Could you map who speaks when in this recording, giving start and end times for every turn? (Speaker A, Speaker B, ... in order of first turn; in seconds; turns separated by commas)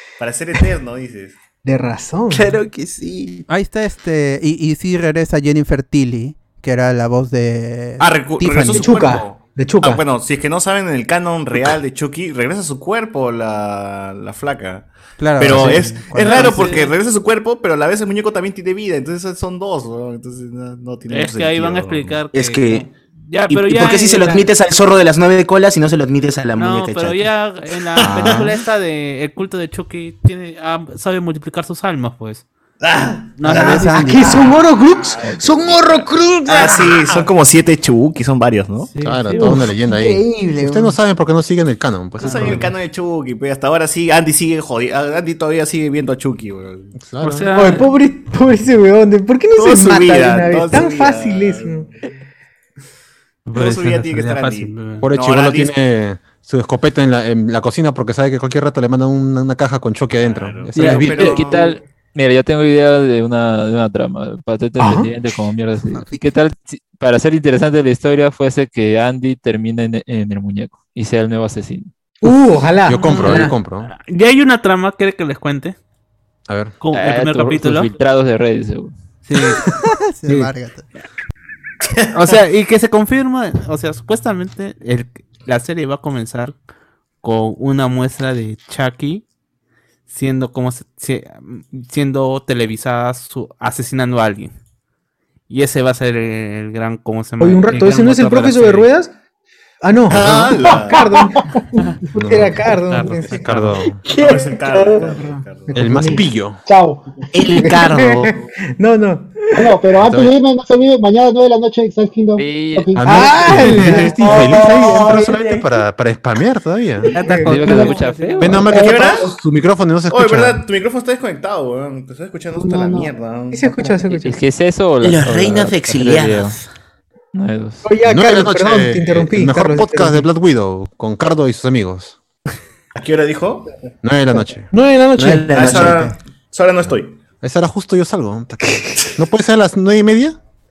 Speaker A: 0.2-1.4, Speaker B: 1.6-2.5, Speaker C: 2.3-3.5, Speaker D: 3.5-9.1, Speaker A: 8.0-22.2, Speaker B: 8.7-10.0, Speaker D: 15.2-16.8, Speaker E: 16.2-16.9, Speaker E: 21.1-24.5, Speaker C: 22.3-22.9, Speaker C: 23.5-27.3, Speaker E: 26.6-32.5, Speaker A: 28.0-28.5, Speaker C: 28.0-28.5, Speaker A: 32.8-38.9, Speaker E: 33.4-34.1, Speaker D: 33.5-34.4, Speaker B: 33.9-37.2, Speaker F: 39.0-42.7, Speaker B: 39.2-41.0, Speaker A: 42.2-46.9, Speaker E: 42.3-42.7, Speaker F: 47.0-47.5, Speaker E: 47.2-47.9, Speaker B: 47.5-51.9, Speaker A: 49.5-51.9, Speaker E: 53.5-55.0, Speaker A: 53.5-55.7, Speaker F: 55.0-61.3, Speaker A: 60.2-61.6, Speaker G: 60.7-71.9, Speaker E: 60.8-61.4, Speaker B: 64.8-65.1, Speaker D: 65.9-66.3, Speaker B: 72.2-73.6, Speaker F: 72.9-73.9, Speaker E: 73.0-75.8, Speaker F: 76.5-76.7, Speaker E: 76.8-77.9, Speaker G: 76.9-78.9, Speaker E: 79.3-79.6, Speaker D: 79.7-80.9, Speaker A: 81.8-82.3, Speaker E: 82.1-86.5, Speaker E: 87.2-89.2, Speaker E: 90.1-94.5, Speaker E: 95.5-98.9, Speaker B: 97.4-99.1, Speaker B: 99.8-106.2, Speaker A: 100.1-101.1, Speaker F: 100.1-100.5, Speaker F: 102.2-102.7, Speaker E: 102.9-103.7, Speaker F: 103.3-104.0, Speaker A: 104.1-106.2, Speaker F: 105.7-106.6, Speaker H: 106.7-107.1, Speaker C: 107.3-108.3, Speaker B: 107.6-109.8, Speaker H: 109.6-115.7, Speaker F: 110.0-110.3, Speaker G: 112.4-113.6, Speaker F: 113.0-117.1, Speaker B: 113.0-114.9, Speaker E: 117.2-118.7, Speaker B: 117.2-118.0, Speaker G: 117.3-118.7, Speaker F: 118.4-120.6, Speaker H: 118.7-119.4, Speaker A: 118.7-119.3, Speaker A: 120.1-123.7, Speaker H: 122.7-123.1, Speaker B: 123.5-124.4, Speaker G: 124.1-126.6, Speaker C: 125.0-126.5, Speaker G: 127.3-127.9, Speaker B: 127.8-130.3, Speaker F: 128.1-132.2, Speaker A: 133.0-133.7, Speaker F: 134.0-135.9, Speaker B: 134.7-135.7, Speaker C: 135.2-136.1, Speaker A: 135.5-137.2, Speaker F: 136.9-140.4